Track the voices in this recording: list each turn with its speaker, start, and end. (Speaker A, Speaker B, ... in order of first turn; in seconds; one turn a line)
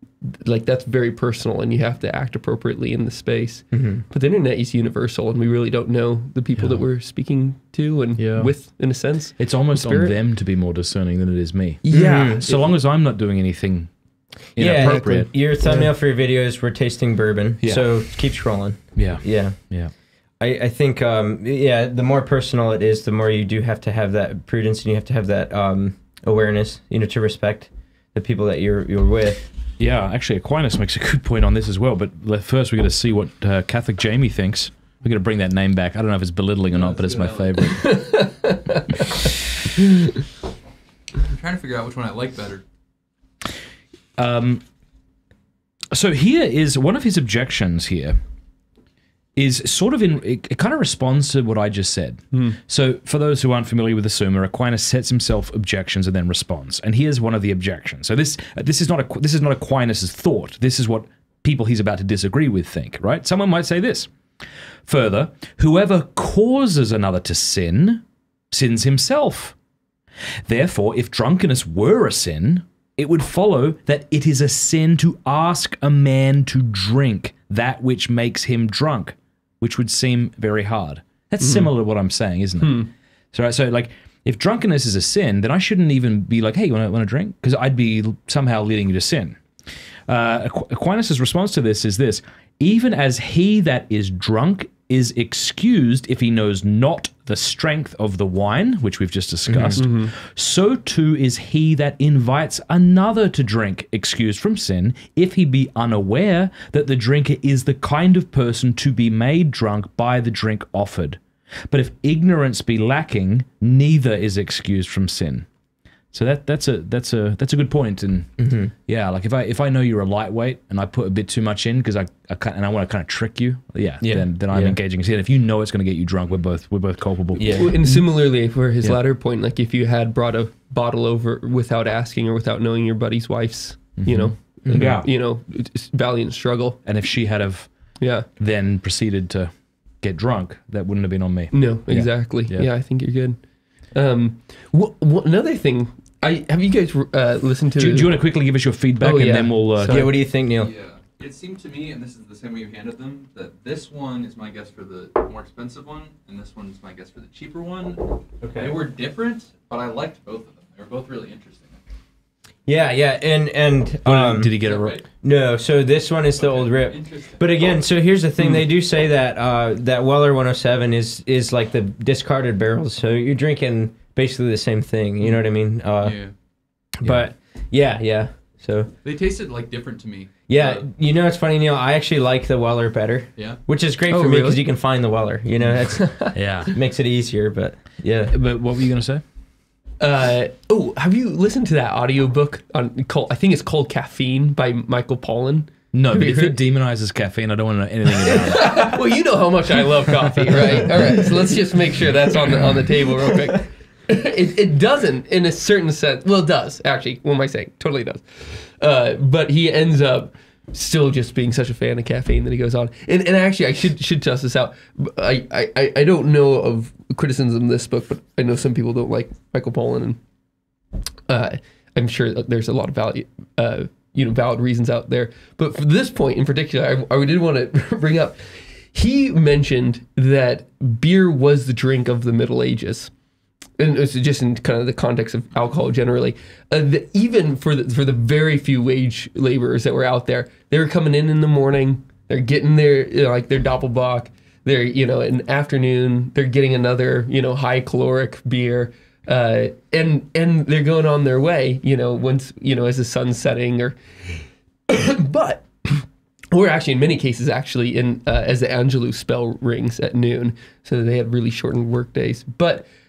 Speaker A: 0.2-10.2
Speaker B: 3.7-4.0
Speaker C: 6.6-6.8
Speaker C: 8.2-8.5
Speaker C: 9.4-13.9
Speaker A: 11.8-12.7
Speaker B: 11.9-12.4
Speaker C: 14.5-15.3
Speaker B: 14.6-19.6
Speaker A: 14.8-15.9
Speaker C: 17.6-18.0
Speaker C: 18.9-19.9
Speaker B: 20.4-29.5
Speaker C: 29.8-38.0
Speaker D: 36.7-37.8
Speaker A: 37.8-38.9
Speaker D: 41.2-42.6
Speaker C: 44.2-44.6
Speaker C: 45.9-48.2
Speaker C: 49.4-64.1
Speaker A: 52.3-52.6
Speaker C: 64.8-69.5
Speaker C: 70.5-89.4
Speaker A: 81.4-81.7
Speaker A: 82.6-82.9
Speaker C: 90.1-115.5
Speaker B: 99.5-99.8
Speaker A: 99.8-100.1
Speaker C: 116.1-118.3
Speaker B: 118.4-118.7
Speaker C: 118.8-127.9
Speaker B: 124.0-124.8
Speaker A: 127.4-136.8
Speaker B: 127.4-127.8
Speaker C: 134.0-135.1
Speaker B: 134.7-135.0
Speaker C: 136.8-137.7
Speaker A: 138.0-138.3
Speaker C: 138.3-142.7
Speaker A: 141.5-143.4
Speaker A: 143.9-148.2
Speaker C: 147.8-150.0
Speaker A: 149.0-150.1
Speaker B: 149.9-150.7
Speaker D: 150.6-161.8
Speaker B: 158.4-158.7
Speaker B: 162.7-164.6
Speaker C: 164.0-165.0
Speaker D: 164.6-165.0
Speaker B: 165.2-176.2
Speaker D: 166.3-167.4
Speaker D: 176.0-176.3
Speaker B: 176.9-178.9
Speaker D: 179.0-180.8
Speaker B: 180.5-188.3
Speaker A: 184.1-184.6
Speaker A: 186.0-186.3
Speaker C: 186.3-186.7
Speaker C: 188.3-189.2
Speaker A: 190.0-196.6
Speaker C: 195.9-199.0
Speaker A: 198.2-220.2
Speaker C: 200.3-200.6
Speaker A: 221.3-233.1
Speaker A: 233.8-254.0
Speaker A: 254.9-262.9